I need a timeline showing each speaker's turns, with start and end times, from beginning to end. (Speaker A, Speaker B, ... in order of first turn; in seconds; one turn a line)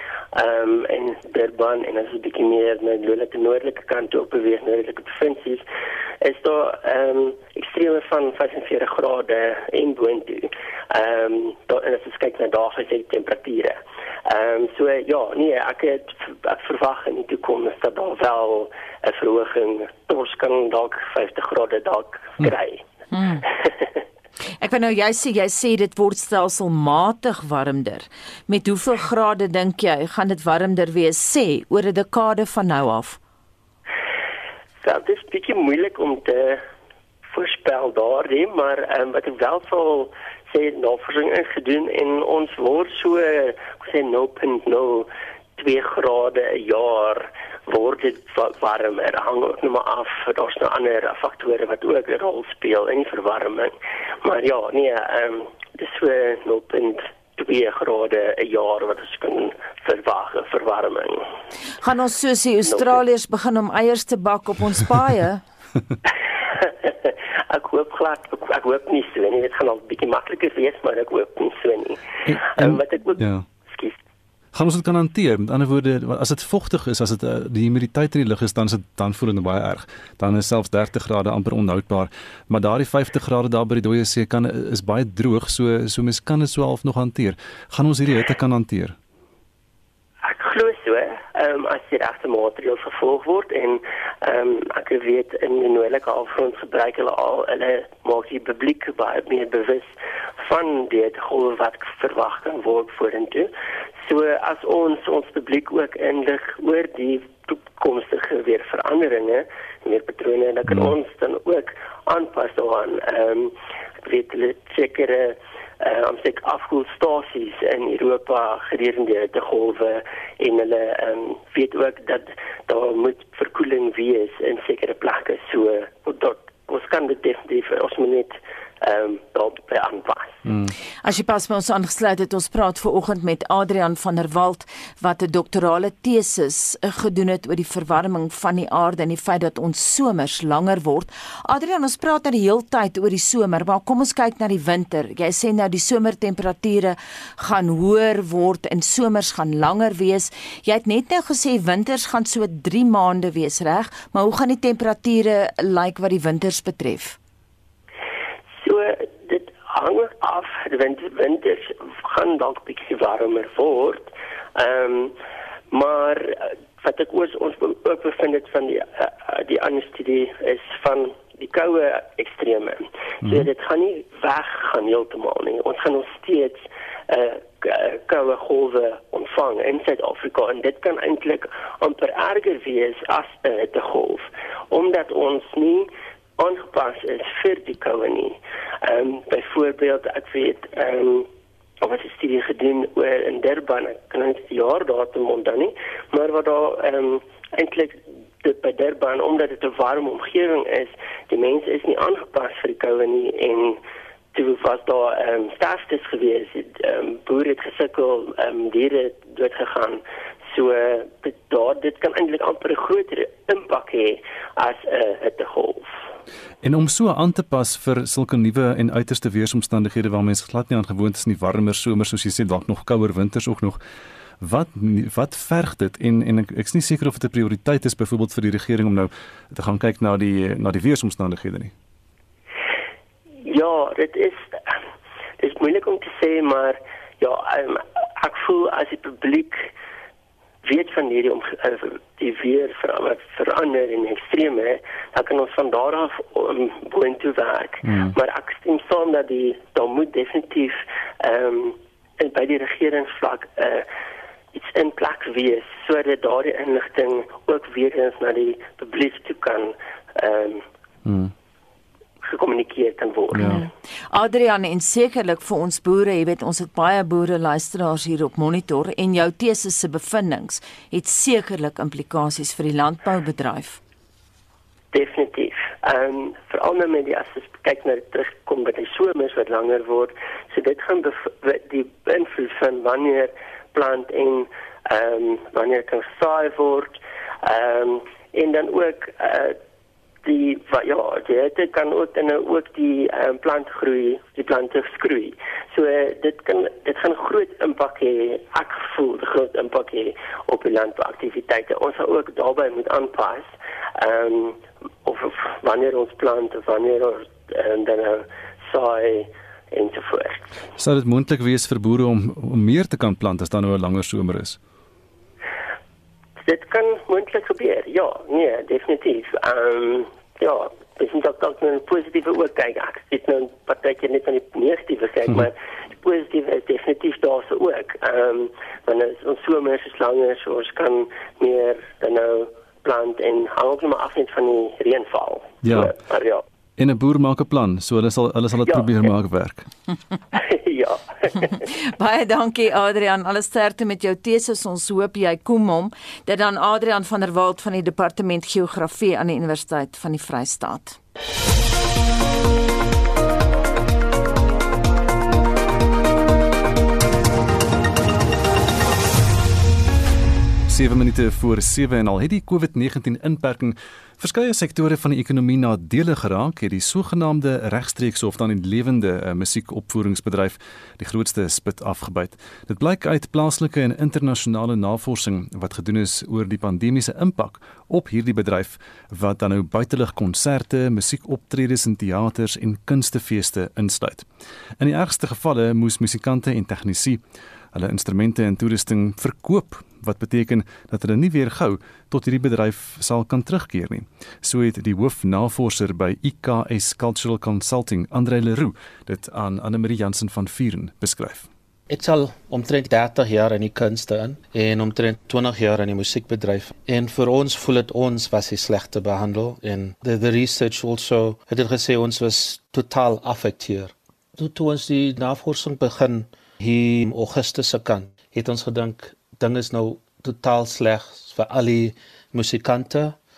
Speaker A: 0.3-5.6
Speaker A: 6.2-13.7
Speaker A: 14.3-22.8
Speaker B: 23.1-23.4
Speaker B: 24.6-33.2
Speaker A: 34.8-36.6
Speaker A: 37.3-61.2
Speaker B: 61.8-65.4
Speaker A: 62.6-63.0
Speaker A: 66.6-73.9
Speaker C: 72.3-73.4
Speaker C: 74.5-89.0
Speaker A: 90.2-103.5
Speaker A: 104.0-113.5
Speaker C: 110.7-110.9
Speaker A: 114.0-130.4
Speaker C: 130.4-130.7
Speaker B: 131.0-157.2
Speaker A: 158.6-165.1
Speaker A: 165.7-185.9
Speaker A: 186.4-191.3
Speaker A: 191.8-203.8
Speaker A: 204.3-215.9
Speaker C: 216.6-223.8
Speaker C: 224.4-231.7
Speaker A: 233.4-234.4
Speaker A: 235.4-239.7
Speaker A: 240.6-253.8
Speaker C: 247.8-248.1
Speaker A: 254.5-260.6
Speaker C: 261.1-261.3
Speaker A: 262.2-263.6
Speaker C: 263.3-263.6
Speaker B: 263.4-273.8
Speaker A: 274.9-289.6
Speaker A: 290.2-310.4
Speaker C: 310.8-314.6
Speaker A: 316.4-336.4
Speaker C: 335.6-335.9
Speaker C: 336.8-339.6
Speaker A: 338.6-339.1
Speaker A: 340.3-341.5
Speaker B: 341.7-351.0
Speaker C: 360.7-384.2
Speaker C: 384.8-387.2
Speaker C: 387.7-401.5
Speaker D: 401.9-423.1